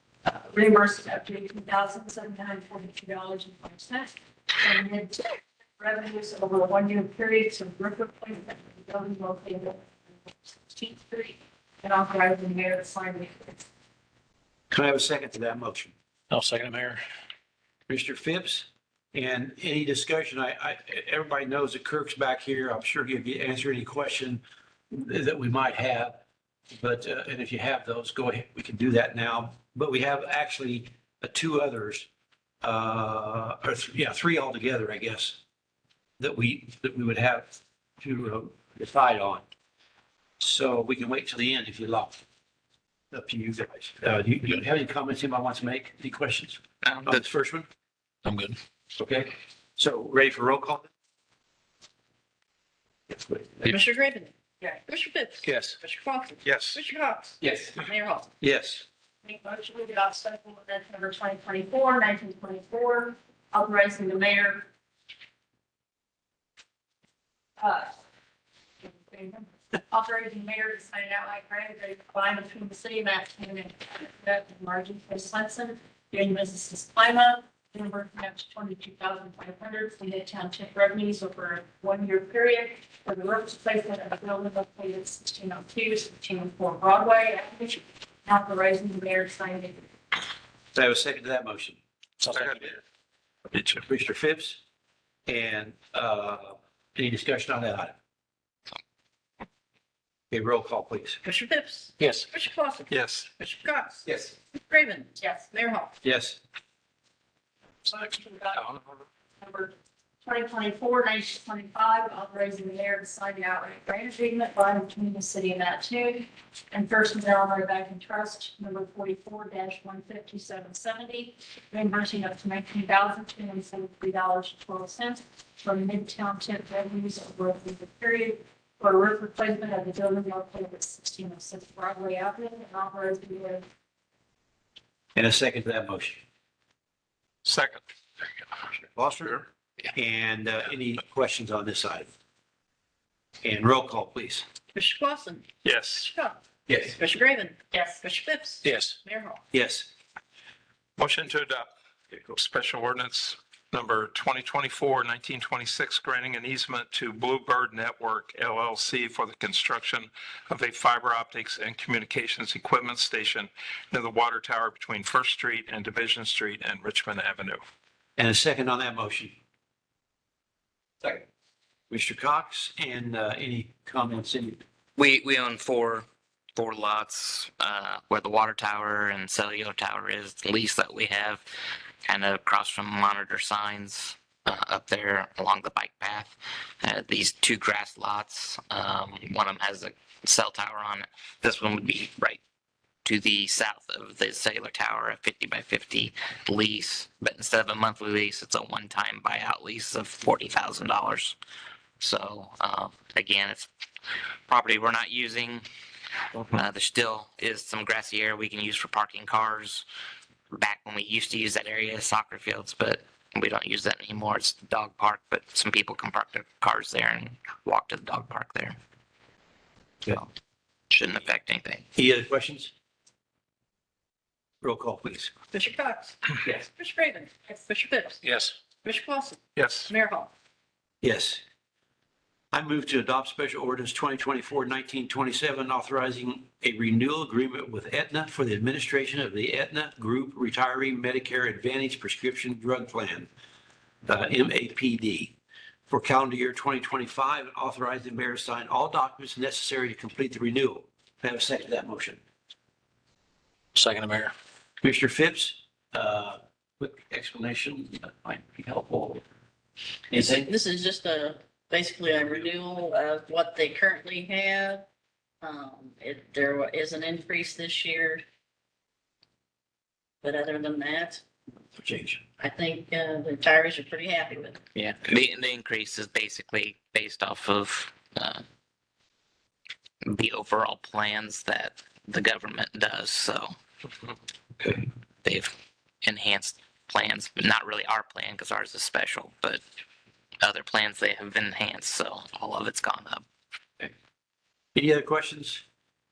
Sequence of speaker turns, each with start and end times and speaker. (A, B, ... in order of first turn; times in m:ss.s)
0:00.2-0:13.6 A
0:14.7-0:15.9 B
0:16.3-0:17.0 C
0:17.9-0:26.2 B
0:26.7-0:32.1 B
0:32.6-0:35.4 B
0:36.2-0:39.4 B
0:40.4-0:42.2 B
0:43.1-0:47.7 B
0:46.8-0:47.2 D
0:48.2-0:48.6 C
0:49.0-0:50.9 B
0:53.1-0:53.7 B
0:53.6-0:54.3 E
0:54.8-0:58.3 E
0:55.4-0:55.8 C
0:56.4-0:56.8 F
0:57.4-0:57.7 B
0:58.4-0:58.8 B
0:59.2-1:04.7 A
1:07.6-1:07.9 A
1:08.8-1:29.9 A
1:30.7-1:31.8 B
1:32.2-1:32.6 C
1:32.3-1:32.7 F
1:33.6-1:34.6 B
1:35.3-1:37.9 B
1:40.3-1:41.2 B
1:41.2-1:45.9 E
1:42.0-1:42.3 C
1:42.9-1:43.3 F
1:45.2-1:45.5 A
1:46.0-1:46.4 B
1:47.8-1:48.8 A
1:49.4-2:13.6 A
2:15.1-2:16.2 B
2:17.4-2:17.8 F
2:18.8-2:22.1 B
2:23.4-2:24.4 B
2:24.7-2:29.4 E
2:25.6-2:26.1 F
2:26.7-2:26.9 B
2:27.7-2:28.0 A
2:28.6-2:29.0 C
2:29.5-2:29.9 B
2:31.0-2:31.7 F
2:32.2-2:47.6 F
2:48.2-2:49.3 B
2:51.9-2:54.6 B
2:55.0-2:56.0 D
2:56.6-3:01.4 D
3:02.0-3:12.4 D
3:13.0-3:21.4 D
3:22.0-3:23.7 D
3:24.5-3:25.6 D
3:26.4-3:29.8 D
3:30.5-3:38.7 D
3:40.9-3:41.8 D
3:42.0-3:42.7 B
3:44.6-3:45.3 B
3:45.5-3:48.2 E
3:48.2-3:48.5 C
3:48.8-3:50.3 E
3:49.6-3:49.9 F
3:51.0-3:51.4 B
3:52.5-4:03.3 B
4:04.0-4:05.3 B
4:05.9-4:12.2 B
4:13.7-4:14.3 C
4:14.8-4:19.2 B
4:20.1-4:20.5 B
4:20.1-4:24.8 E
4:25.4-4:28.2 E
4:30.2-4:31.2 E
4:31.7-4:32.2 B
4:32.4-4:34.6 E
4:34.7-4:38.4 D
4:40.0-4:43.5 D
4:45.2-4:49.6 D
4:50.4-4:53.2 D
4:54.7-4:55.6 B